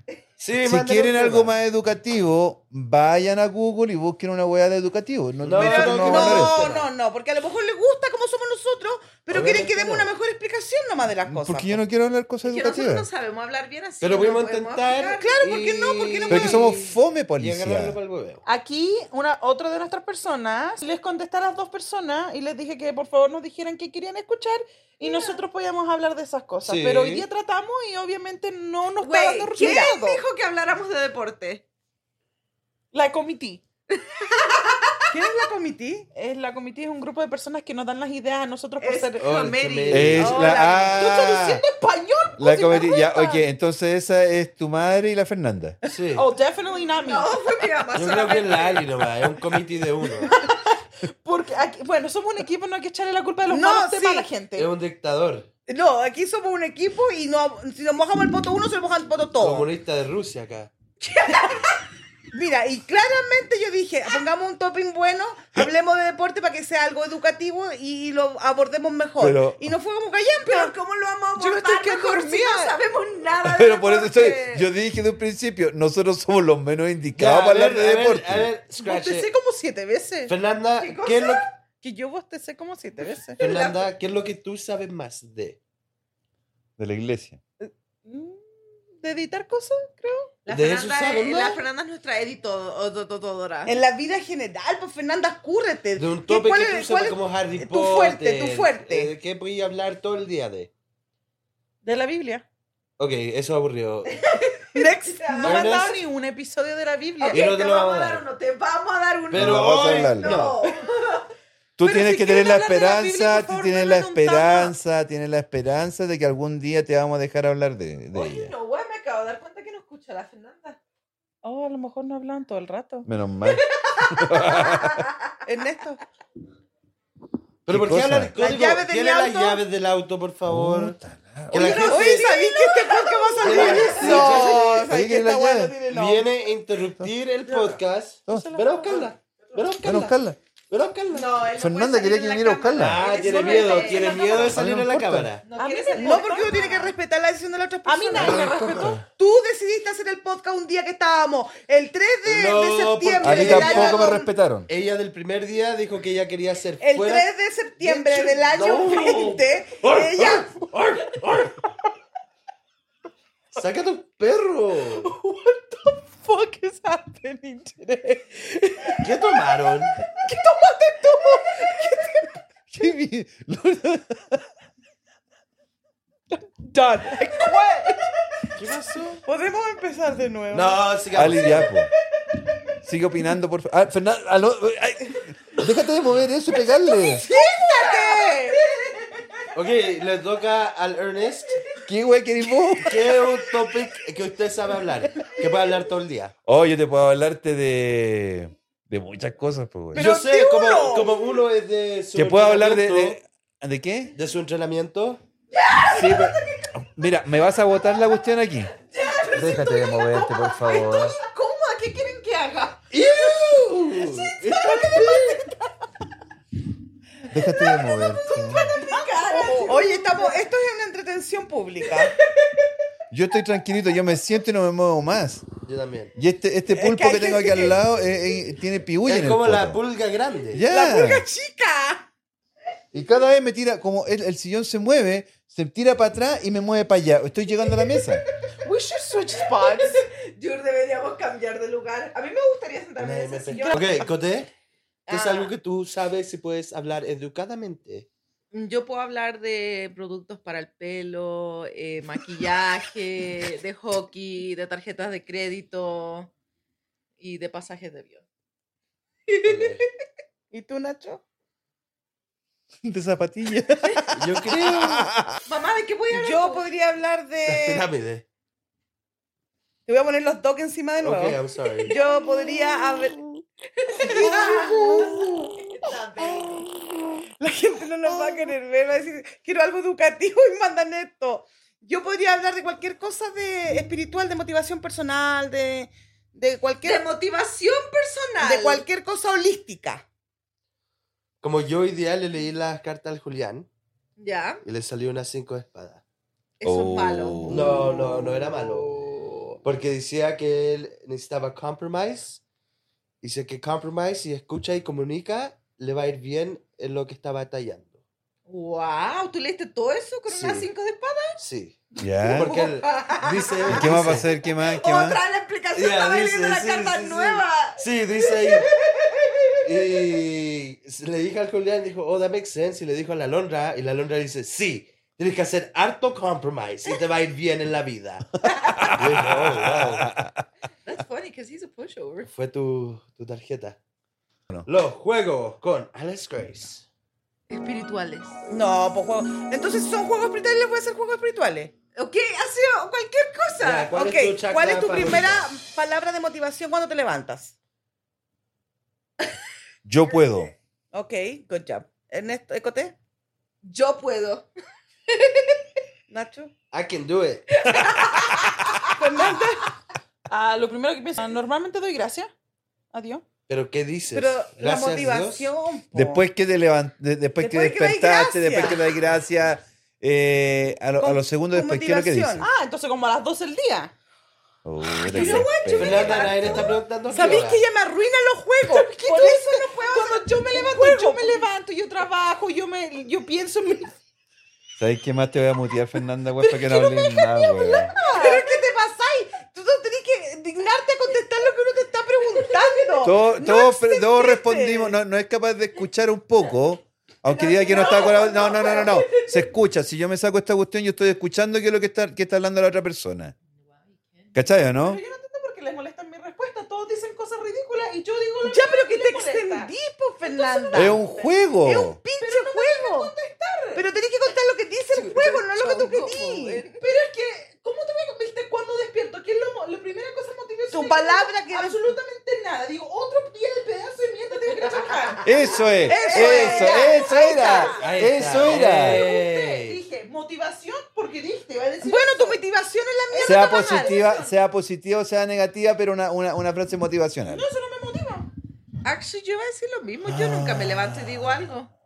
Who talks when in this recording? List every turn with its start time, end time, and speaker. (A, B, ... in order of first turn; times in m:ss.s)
0:00.4-0:01.5 A
0:00.6-0:06.7 B
0:05.4-0:06.9 A
0:05.6-0:11.8 C
0:09.3-0:10.1 A
0:11.2-0:13.1 B
0:12.4-0:15.4 D
0:14.0-0:18.4 A
0:15.2-0:16.8 C
0:16.3-0:18.0 B
0:18.4-0:30.2 E
0:25.0-0:25.4 D
0:26.6-0:27.2 A
0:29.0-0:31.6 D
0:29.6-0:29.9 C
0:32.9-0:33.6 E
0:33.9-0:35.0 D
0:35.1-0:36.1 C
0:36.1-0:39.3 E
0:38.8-0:40.9 D
0:39.2-0:40.7 A
0:39.9-0:41.6 B
0:40.2-0:43.4 E
0:42.4-0:45.8 B
0:45.8-0:46.3 A
0:46.1-0:47.3 E
0:46.8-0:48.9 D
0:47.9-0:50.3 A
0:50.2-0:54.7 E
0:53.5-0:54.3 C
0:54.5-0:55.5 A
0:55.7-0:59.7 C
0:59.4-1:00.7 A
1:01.0-1:01.8 D
1:02.3-1:10.7 C
1:09.2-1:09.7 B
1:10.4-1:14.7 D
1:11.4-1:12.7 E
1:13.4-1:18.5 B
1:17.2-1:19.3 A
1:18.7-1:20.3 E
1:20.3-1:21.4 A
1:20.8-1:21.6 D
1:21.8-1:23.4 E
1:23.4-1:23.9 D
1:23.4-1:25.6 A
1:26.8-1:27.4 B
1:27.6-1:30.3 E
1:30.4-1:33.7 D
1:30.5-1:31.6 A
1:33.6-1:39.1 C
1:36.0-1:40.7 A
1:41.8-1:42.4 E
1:43.0-1:44.3 A
1:44.3-1:45.7 D
1:44.7-1:47.4 E
1:45.4-1:46.0 A
1:47.2-1:51.3 D
1:47.2-1:48.2 A
1:49.3-1:50.6 A
1:49.3-1:50.5 B
1:51.8-1:58.5 B
1:51.8-1:54.7 E
1:58.1-2:00.8 D
2:01.4-2:03.1 E
2:03.0-2:05.1 B
2:03.4-2:05.1 D
2:05.4-2:06.0 C
2:07.7-2:11.0 A
2:07.7-2:08.3 B
2:08.4-2:09.6 C
2:10.5-2:11.9 B
2:11.5-2:12.3 A
2:11.5-2:16.3 C
2:11.6-2:14.3 D
2:13.4-2:14.9 A
2:13.9-2:15.8 B
2:15.9-2:20.2 A
2:18.3-2:18.6 B
2:18.3-2:19.1 E
2:19.8-2:20.4 B
2:20.7-2:21.3 A
2:21.1-2:24.5 D
2:21.5-2:23.0 B
2:22.8-2:25.5 A
2:23.0-2:24.6 E
2:24.4-2:25.3 B
2:25.4-2:26.6 D
2:25.6-2:26.9 E
2:26.0-2:28.5 C
2:27.8-2:29.0 E
2:28.2-2:29.0 B
2:29.1-2:34.3 C
2:32.2-2:41.6 A
2:33.2-2:34.7 B
2:36.8-2:40.5 C
2:43.5-2:45.1 A
2:44.9-2:49.1 E
2:49.0-2:50.0 A
2:50.0-2:52.4 E
2:52.7-2:54.5 B
2:56.3-2:58.1 E
2:58.5-2:59.2 A
2:59.2-3:00.8 C
3:00.5-3:01.7 A
3:01.1-3:01.9 B
3:02.8-3:07.3 B
3:07.1-3:08.5 E
3:07.3-3:08.5 C
3:07.7-3:09.3 D
3:09.5-3:11.6 A
3:11.9-3:13.2 B
3:12.8-3:16.3 A
3:16.4-3:20.1 B
3:19.9-3:21.1 C
3:19.9-3:23.2 A
3:22.1-3:24.1 B
3:24.1-3:25.2 A
3:25.5-3:26.6 D
3:25.9-3:28.7 B
3:28.8-3:35.3 D
3:29.3-3:31.2 B
3:32.9-3:35.4 A
3:34.9-3:35.5 E
3:37.3-3:38.7 B
3:37.8-3:39.8 D
3:38.7-3:40.4 E
3:39.6-3:42.1 C
3:42.2-3:42.7 D
3:43.1-3:45.5 B
3:45.6-3:46.1 A
3:46.2-3:49.8 B
3:46.7-3:47.8 C
3:49.0-3:50.7 A
3:50.5-3:51.2 B
3:50.7-3:52.0 C
3:52.9-3:58.2 B
3:58.6-4:00.1 E
3:59.5-4:04.1 D
4:03.0-4:04.5 A
4:03.5-4:04.1 E
4:05.1-4:05.5 D
4:05.1-4:08.1 A
4:08.5-4:16.3 D
4:17.2-4:18.2 D
4:19.3-4:19.9 D
4:19.4-4:19.8 A
4:20.5-4:21.2 C
4:22.8-4:25.4 B
4:24.1-4:25.1 A
4:25.4-4:26.6 D
4:26.1-4:27.8 C
4:27.4-4:28.2 A
4:29.9-4:33.2 C
4:31.0-4:31.9 A
4:33.8-4:36.7 D
4:34.0-4:35.2 C
4:37.4-4:47.0 C
4:46.8-4:48.8 D
4:48.4-4:50.0 C
4:51.4-4:53.7 A
4:54.2-4:54.6 D
4:54.6-4:56.0 A
4:56.6-4:59.6 D
4:56.6-4:57.7 B
4:57.5-4:58.9 A
4:59.6-5:02.4 A
5:03.2-5:08.0 A
5:08.5-5:11.4 D
5:10.3-5:10.6 A
5:11.4-5:14.2 A
5:12.0-5:12.5 B
5:12.4-5:19.9 D
5:13.6-5:15.2 B
5:15.7-5:18.7 A
5:19.6-5:30.1 A
5:28.5-5:30.4 B
5:30.8-5:32.3 D
5:32.3-5:33.8 A
5:34.6-5:36.8 A
5:37.5-5:38.4 D
5:38.5-5:41.7 C
5:42.0-5:43.9 D
5:43.6-5:45.5 A
5:43.9-5:47.5 C
5:49.8-5:50.5 B
5:50.9-5:52.9 C
5:53.6-5:54.5 D
5:55.1-5:55.7 D
5:56.1-5:56.5 C
5:56.7-5:57.6 A
5:57.5-5:58.8 D
5:58.9-5:59.7 C
6:00.3-6:02.3 E
6:02.9-6:03.2 E
6:03.5-6:05.5 A
6:04.1-6:06.2 C
6:05.9-6:12.5 B
6:07.4-6:08.9 C
6:11.0-6:12.5 C
6:12.4-6:13.9 E
6:14.6-6:16.8 B
6:15.0-6:16.8 D
6:15.1-6:15.5 E
6:15.7-6:17.6 A
6:17.1-6:23.9 E
6:17.1-6:21.5 C
6:24.8-6:27.9 B
6:26.4-6:33.0 E
6:27.9-6:28.6 C
6:29.5-6:31.5 C
6:32.2-6:35.0 C
6:33.0-6:43.3 B
6:37.3-6:39.4 E
6:37.7-6:38.7 C
6:43.6-6:44.3 D
6:44.3-6:45.0 B
6:44.6-6:49.7 E
6:48.4-6:51.0 C
6:50.2-6:51.4 E
6:50.7-6:52.0 B
6:51.6-6:53.1 C
6:52.2-6:53.8 E
6:53.7-6:56.6 C
6:54.9-6:56.8 D
6:56.7-7:12.4 E
7:00.7-7:01.9 C
7:04.6-7:06.9 D
7:05.2-7:09.0 B
7:05.9-7:07.7 C
7:07.7-7:09.8 A
7:11.8-7:14.0 C
7:13.1-7:14.3 E
7:13.2-7:17.4 B
7:17.3-7:18.3 E
7:18.8-7:21.7 D
7:20.0-7:21.5 B